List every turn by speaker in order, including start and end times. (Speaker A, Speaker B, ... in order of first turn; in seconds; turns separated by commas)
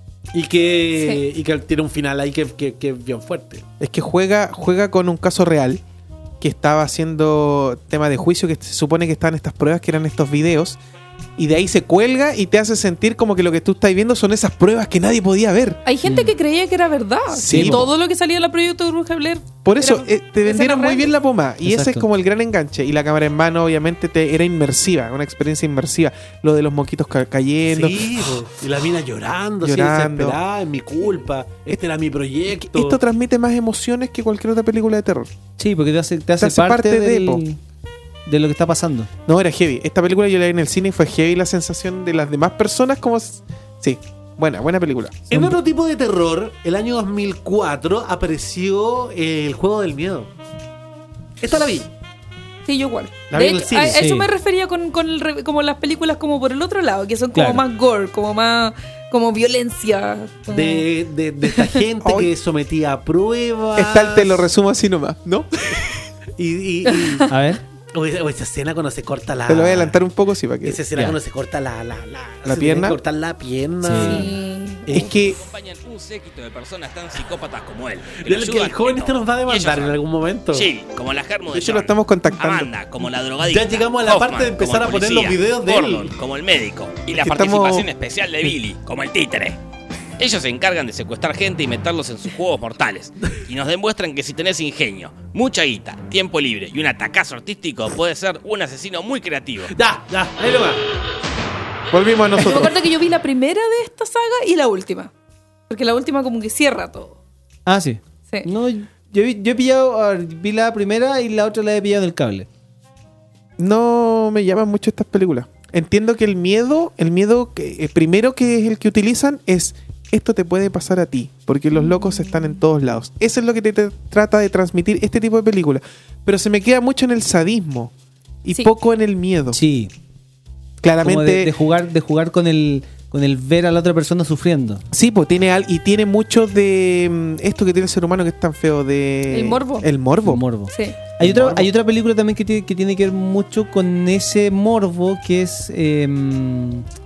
Speaker A: 0.3-3.6, Speaker B: 3.8-5.8, Speaker B: 6.4-10.8, Speaker B: 11.4-15.8, Speaker C: 15.8-21.1, Speaker D: 16.0-16.3, Speaker B: 17.3-17.9, Speaker D: 17.5-17.9, Speaker B: 19.6-28.3, Speaker D: 21.6-22.0, Speaker A: 27.7-33.0, Speaker B: 29.6-30.4, Speaker B: 32.5-35.3, Speaker D: 35.6-37.6, Speaker B: 36.4-37.4, Speaker D: 38.2-39.1, Speaker B: 39.2-45.2, Speaker A: 45.3-50.3, Speaker D: 45.3-45.6, Speaker A: 51.4-51.9, Speaker C: 52.6-60.8, Speaker A: 53.3-54.0, Speaker D: 53.9-54.3, Speaker D: 57.3-57.6, Speaker A: 60.5-64.4, Speaker C: 61.5-61.8, Speaker B: 62.0-62.3, Speaker B: 63.8-65.8, Speaker A: 66.4-67.3, Speaker C: 66.9-67.2, Speaker D: 67.3-67.6, Speaker A: 67.9-70.0, Speaker B: 69.5-70.8, Speaker A: 70.6-74.3, Speaker B: 72.4-73.0, Speaker D: 73.8-74.3, Speaker C: 74.0-74.8, Speaker A: 74.8-75.1, Speaker B: 74.9-75.4, Speaker E: 75.1-80.0, Speaker A: 78.1-80.7, Speaker E: 80.5-89.6, Speaker B: 81.5-82.7, Speaker A: 83.4-86.1, Speaker B: 87.1-87.9, Speaker E: 90.2-99.7, Speaker A: 99.7-100.8, Speaker B: 101.9-102.8, Speaker C: 102.4-105.1, Speaker C: 105.7-107.2, Speaker D: 107.7-112.5, Speaker B: 113.6-127.9, Speaker C: 121.7-122.5, Speaker B: 128.4-129.6, Speaker D: 129.5-129.9, Speaker B: 130.8-131.5, Speaker D: 131.0-134.8, Speaker B: 134.9-140.4, Speaker C: 139.3-139.9, Speaker D: 140.2-146.8, Speaker C: 140.7-141.0, Speaker A: 141.2-141.7